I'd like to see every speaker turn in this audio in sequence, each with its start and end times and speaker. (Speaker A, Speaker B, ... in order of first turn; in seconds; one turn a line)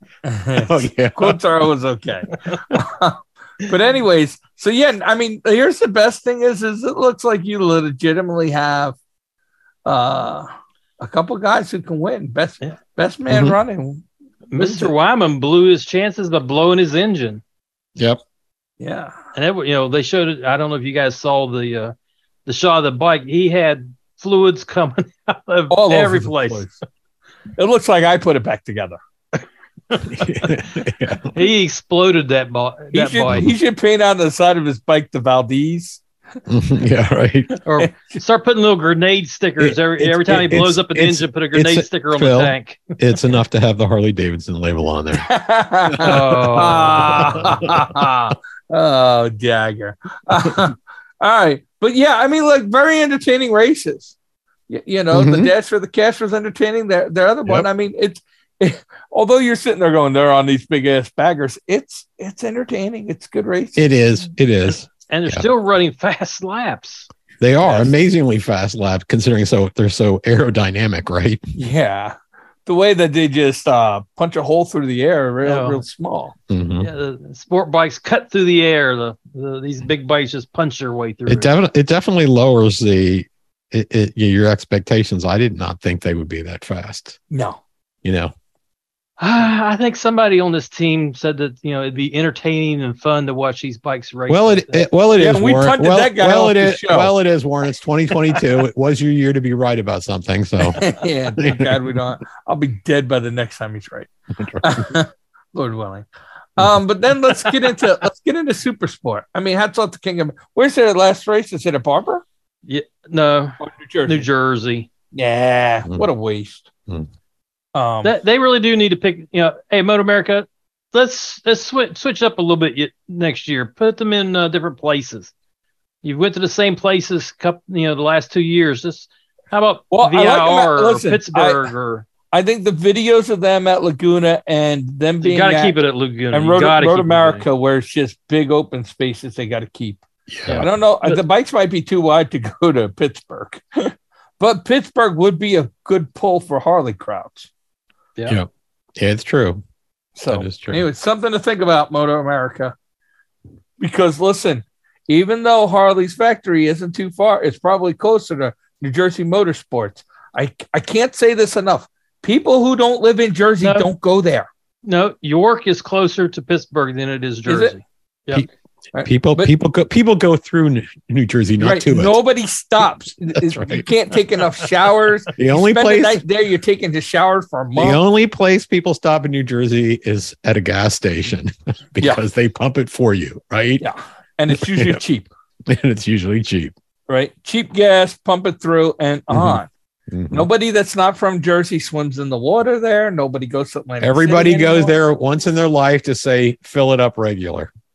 Speaker A: 0.2-9.0
Speaker B: 0.6-1.4
Speaker A: 9.8-14.0
Speaker B: 13.3-13.6
Speaker C: 14.5-17.4
Speaker A: 14.6-14.9
Speaker A: 18.8-19.1
Speaker C: 19.3-21.9
Speaker C: 22.4-26.7
Speaker A: 25.7-26.7
Speaker A: 27.6-29.0
Speaker C: 29.9-30.5
Speaker B: 30.0-31.4
Speaker C: 31.3-33.4
Speaker A: 32.9-36.0
Speaker B: 36.5-37.5
Speaker A: 37.5-38.2
Speaker C: 37.6-43.0
Speaker B: 39.6-45.3
Speaker A: 45.2-54.1
Speaker B: 45.9-48.0
Speaker C: 46.0-47.5
Speaker A: 54.7-63.9
Speaker B: 55.1-55.5
Speaker B: 63.8-65.5
Speaker C: 64.7-67.1
Speaker B: 67.4-71.5
Speaker A: 71.5-76.3
Speaker C: 75.4-75.8
Speaker B: 76.5-76.9
Speaker C: 76.8-81.5
Speaker B: 81.3-87.2
Speaker A: 87.3-87.6
Speaker B: 88.0-88.3
Speaker C: 89.2-94.8
Speaker B: 94.3-100.8
Speaker A: 95.2-97.1
Speaker A: 98.1-98.5
Speaker A: 100.7-104.1
Speaker B: 101.4-101.7
Speaker B: 104.3-104.9
Speaker A: 104.6-112.2
Speaker C: 112.7-114.9
Speaker A: 113.6-114.2
Speaker A: 115.1-116.7
Speaker A: 117.7-118.1
Speaker C: 118.0-125.3
Speaker C: 126.0-132.1
Speaker A: 129.9-131.7
Speaker A: 132.3-135.8
Speaker C: 135.2-137.4
Speaker A: 136.3-147.5
Speaker B: 140.3-140.7
Speaker C: 140.5-141.2
Speaker B: 148.2-149.6
Speaker A: 150.2-152.7
Speaker B: 150.3-150.8
Speaker A: 153.8-164.5
Speaker C: 163.6-163.9
Speaker C: 164.8-168.4
Speaker A: 167.5-167.7
Speaker A: 168.9-169.5
Speaker B: 169.0-172.2
Speaker A: 171.6-178.0
Speaker B: 173.4-173.9
Speaker B: 175.4-176.2
Speaker B: 177.8-183.8
Speaker A: 183.8-185.3
Speaker B: 184.5-185.0
Speaker B: 185.7-186.7
Speaker A: 187.1-189.7
Speaker B: 189.3-189.6
Speaker B: 190.1-190.5
Speaker A: 190.3-194.9
Speaker B: 194.0-197.7